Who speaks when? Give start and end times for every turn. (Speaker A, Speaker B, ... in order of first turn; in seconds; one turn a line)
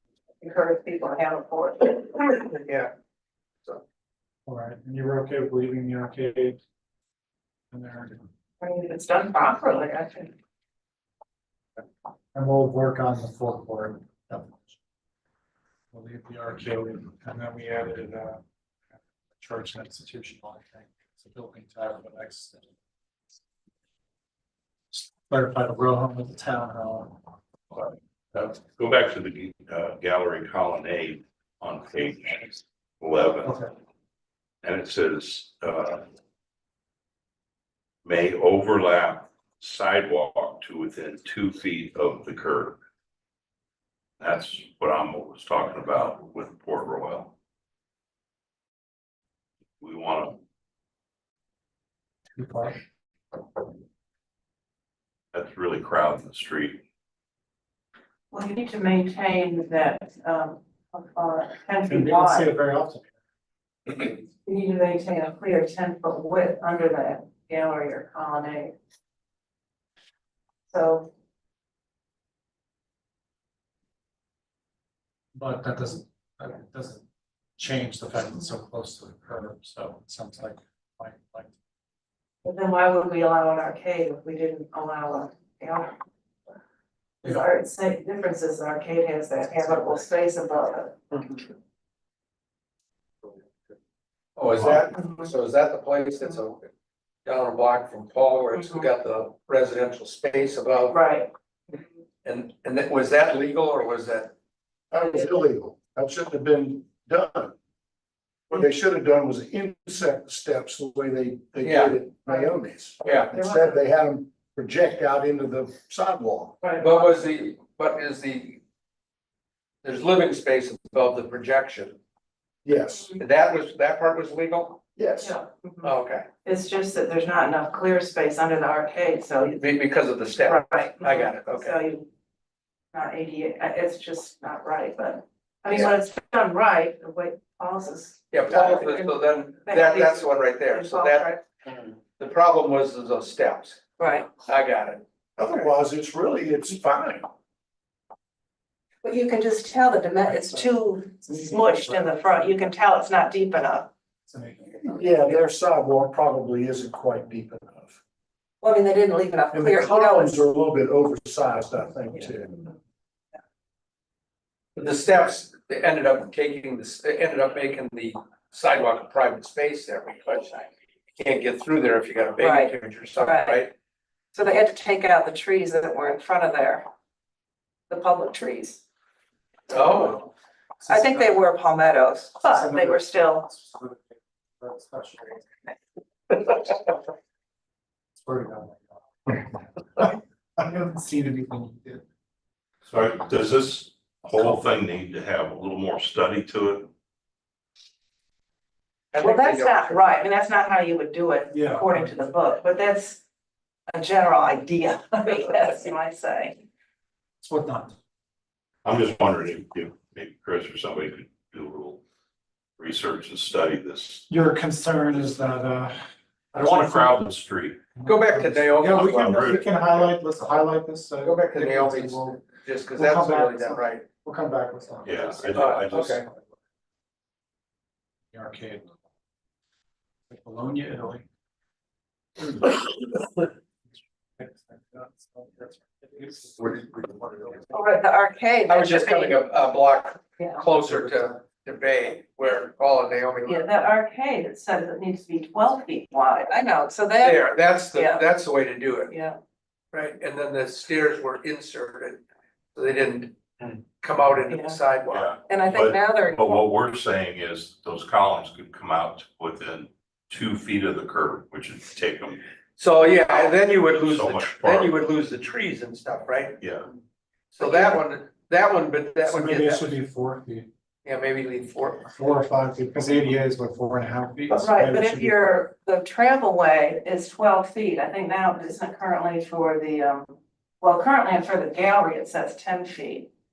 Speaker A: 0.4-2.5
Speaker B: 2.5-2.9
Speaker C: 4.5-6.6
Speaker C: 7.7-8.3
Speaker A: 8.6-10.3
Speaker C: 12.3-14.7
Speaker C: 15.9-18.4
Speaker C: 19.4-22.6
Speaker C: 24.9-27.2
Speaker D: 27.7-33.6
Speaker C: 33.4-33.7
Speaker D: 34.6-36.0
Speaker D: 38.0-42.8
Speaker D: 44.2-47.3
Speaker D: 49.8-50.4
Speaker C: 52.4-52.8
Speaker D: 55.3-56.8
Speaker A: 58.3-62.5
Speaker C: 61.9-63.1
Speaker A: 64.4-68.7
Speaker A: 70.7-71.1
Speaker C: 75.3-77.0
Speaker C: 77.6-81.5
Speaker A: 82.4-85.9
Speaker A: 87.2-91.0
Speaker B: 94.3-96.7
Speaker A: 94.9-95.3
Speaker B: 97.2-101.0
Speaker A: 98.5-98.9
Speaker A: 100.9-101.3
Speaker B: 102.2-104.3
Speaker E: 104.9-107.5
Speaker E: 108.5-116.6
Speaker B: 111.6-112.0
Speaker B: 113.0-113.3
Speaker A: 113.1-113.8
Speaker A: 116.6-117.1
Speaker B: 116.8-118.6
Speaker B: 119.8-122.0
Speaker E: 122.7-123.2
Speaker B: 123.2-124.8
Speaker E: 125.0-125.3
Speaker A: 125.2-125.9
Speaker B: 125.8-126.2
Speaker A: 126.4-129.7
Speaker B: 129.6-131.8
Speaker A: 130.4-132.1
Speaker A: 132.9-141.4
Speaker B: 138.3-141.4
Speaker B: 142.2-145.0
Speaker A: 144.0-144.3
Speaker E: 145.4-147.3
Speaker A: 149.0-153.9
Speaker C: 150.2-152.7
Speaker C: 154.3-154.8
Speaker E: 154.8-158.0
Speaker A: 158.6-160.4
Speaker E: 159.5-162.6
Speaker B: 164.8-173.7
Speaker A: 172.4-173.7
Speaker A: 174.3-176.8
Speaker A: 177.9-178.8
Speaker B: 179.7-180.3
Speaker C: 180.8-181.5
Speaker A: 180.9-183.5
Speaker C: 182.5-185.5
Speaker C: 188.2-192.0
Speaker D: 192.9-196.9
Speaker B: 199.1-200.1
Speaker A: 199.2-203.2
Speaker C: 201.5-202.1
Speaker A: 203.9-206.6
Speaker C: 207.4-207.9
Speaker D: 208.8-212.0
Speaker D: 212.8-214.2
Speaker C: 214.3-215.9
Speaker C: 216.5-217.3
Speaker D: 216.6-217.8
Speaker C: 217.9-226.4
Speaker B: 218.0-219.2
Speaker D: 218.8-220.1
Speaker B: 221.2-224.0
Speaker D: 225.0-226.2
Speaker B: 225.5-226.2
Speaker C: 228.3-228.9
Speaker C: 230.3-231.2
Speaker C: 232.4-232.7
Speaker C: 234.4-237.6
Speaker A: 237.7-239.4
Speaker B: 238.7-243.7
Speaker A: 240.4-240.6
Speaker C: 240.9-241.3
Speaker A: 243.4-248.2
Speaker B: 247.2-249.1
Speaker A: 249.1-249.4
Speaker B: 249.9-252.2
Speaker B: 252.7-255.3
Speaker A: 254.5-254.8
Speaker D: 255.1-262.4
Speaker A: 255.5-256.6
Speaker B: 262.8-266.6
Speaker D: 264.1-265.0
Speaker D: 266.6-266.9
Speaker B: 267.5-270.0
Speaker C: 269.2-270.7
Speaker B: 271.1-272.1
Speaker C: 272.1-275.7
Speaker A: 274.5-283.3